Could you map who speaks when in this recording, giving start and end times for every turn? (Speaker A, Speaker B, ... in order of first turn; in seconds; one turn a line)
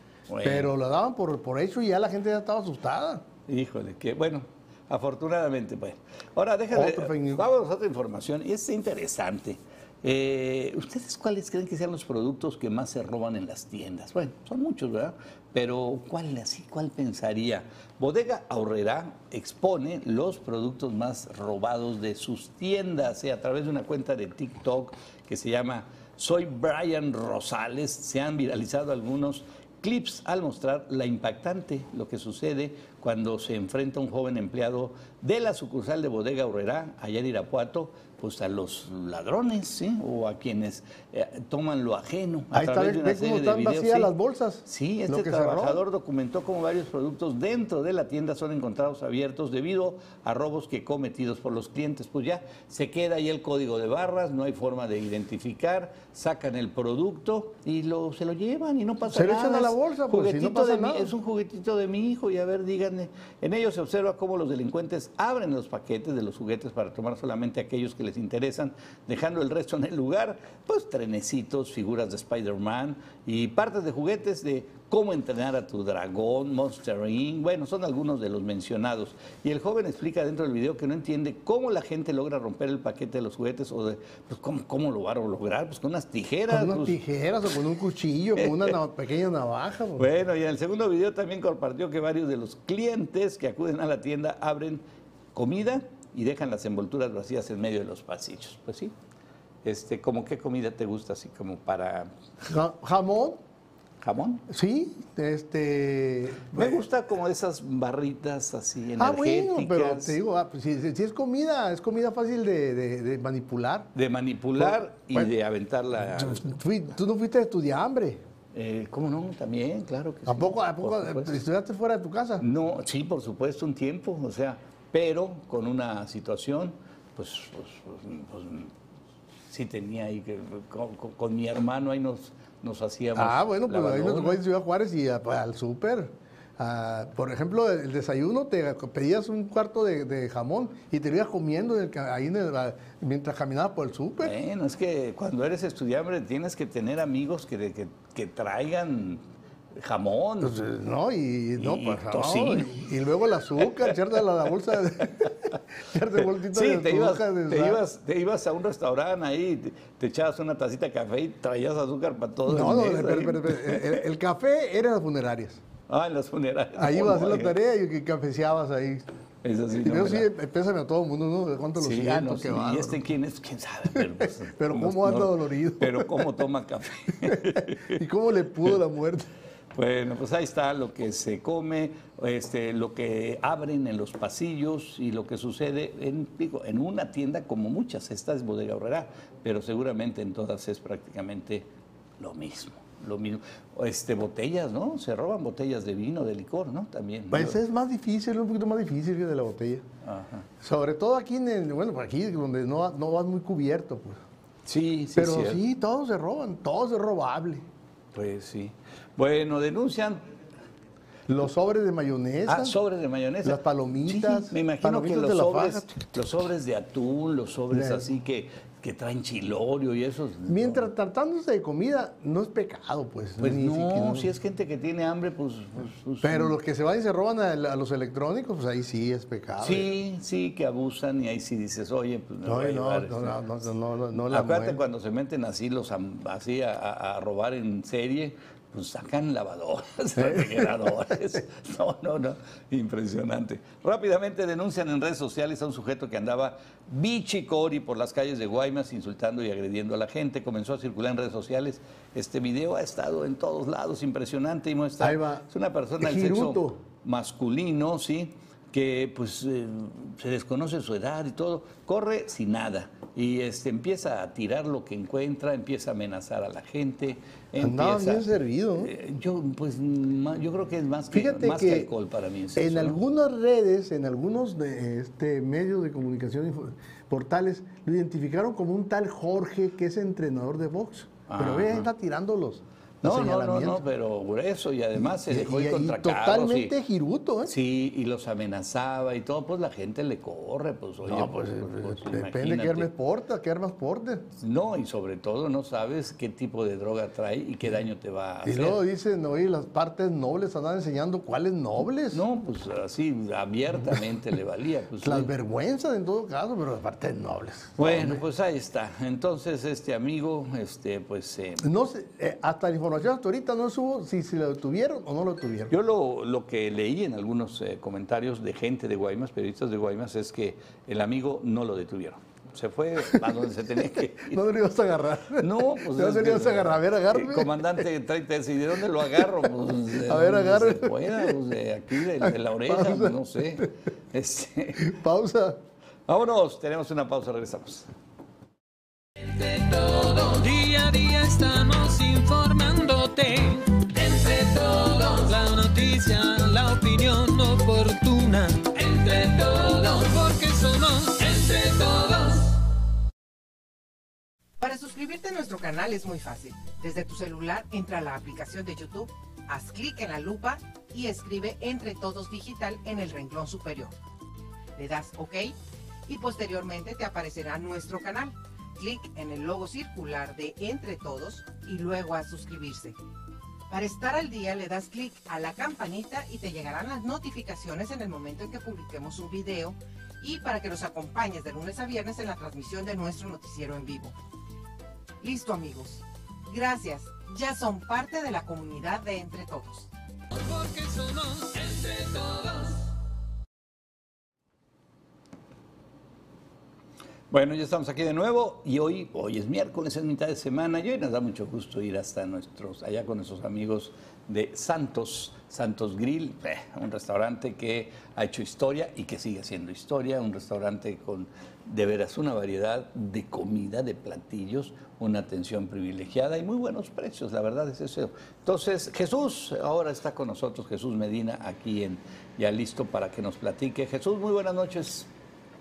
Speaker A: 0.3-0.7
Speaker B: 0.4-3.2
Speaker A: 3.5-44.1
Speaker B: 6.7-7.5
Speaker B: 42.5-45.8
Speaker A: 44.7-87.0
Speaker B: 59.1-61.1
Speaker B: 86.5-90.1
Speaker A: 88.4-88.7
Speaker A: 90.0-94.8
Speaker A: 95.3-98.9
Speaker A: 99.7-102.1
Speaker B: 102.4-103.4
Speaker A: 104.0-104.4
Speaker B: 104.5-106.8
Speaker A: 106.5-110.2
Speaker B: 109.0-113.9
Speaker A: 113.9-116.6
Speaker B: 114.6-115.3
Speaker B: 116.1-118.2
Speaker A: 118.5-121.4
Speaker B: 120.3-122.5
Speaker A: 122.4-128.7
Speaker A: 129.5-134.4
Speaker B: 133.2-144.4
Speaker A: 144.2-150.6
Speaker B: 150.4-157.8
Speaker A: 151.6-152.7
Speaker A: 153.6-154.0
Speaker A: 155.2-155.6
Speaker A: 156.1-164.0
Speaker B: 162.5-165.6
Speaker A: 165.9-167.6
Speaker B: 166.8-169.1
Speaker A: 169.4-170.3
Speaker B: 169.7-173.0
Speaker A: 171.8-178.0
Speaker B: 173.9-176.4
Speaker B: 177.2-179.3
Speaker A: 179.7-191.7
Speaker A: 192.2-197.6
Speaker B: 197.3-199.8
Speaker A: 200.0-200.5
Speaker B: 200.6-204.2
Speaker A: 204.7-205.6
Speaker B: 205.2-207.7
Speaker A: 208.1-210.3
Speaker B: 211.3-212.8
Speaker A: 212.5-220.9
Speaker B: 213.4-215.9
Speaker B: 217.7-218.1
Speaker B: 220.5-224.3
Speaker A: 223.4-226.6
Speaker B: 226.2-229.9
Speaker A: 229.6-233.4
Speaker B: 232.4-234.8
Speaker A: 234.2-273.0
Speaker B: 240.2-241.2
Speaker B: 255.0-255.5
Speaker B: 256.0-256.8
Speaker B: 267.6-268.9
Speaker B: 271.1-271.9
Speaker B: 272.6-283.8
Speaker A: 281.3-281.9
Speaker A: 283.0-286.7
Speaker B: 285.0-287.5
Speaker A: 287.4-292.9
Speaker B: 291.1-294.2
Speaker A: 294.4-298.8
Speaker B: 298.4-302.2
Speaker A: 302.1-305.3
Speaker B: 305.0-308.2
Speaker A: 307.8-311.7
Speaker B: 311.6-315.7
Speaker A: 315.7-324.4
Speaker B: 324.2-327.9
Speaker A: 325.4-334.9
Speaker B: 329.1-331.4
Speaker B: 332.2-333.7
Speaker B: 334.8-335.6
Speaker A: 336.1-337.9
Speaker C: 339.2-352.6
Speaker D: 354.6-363.9
Speaker D: 364.8-365.6
Speaker D: 366.1-373.0
Speaker D: 373.7-384.1
Speaker D: 385.2-389.9
Speaker C: 390.3-392.9
Speaker A: 397.3-425.1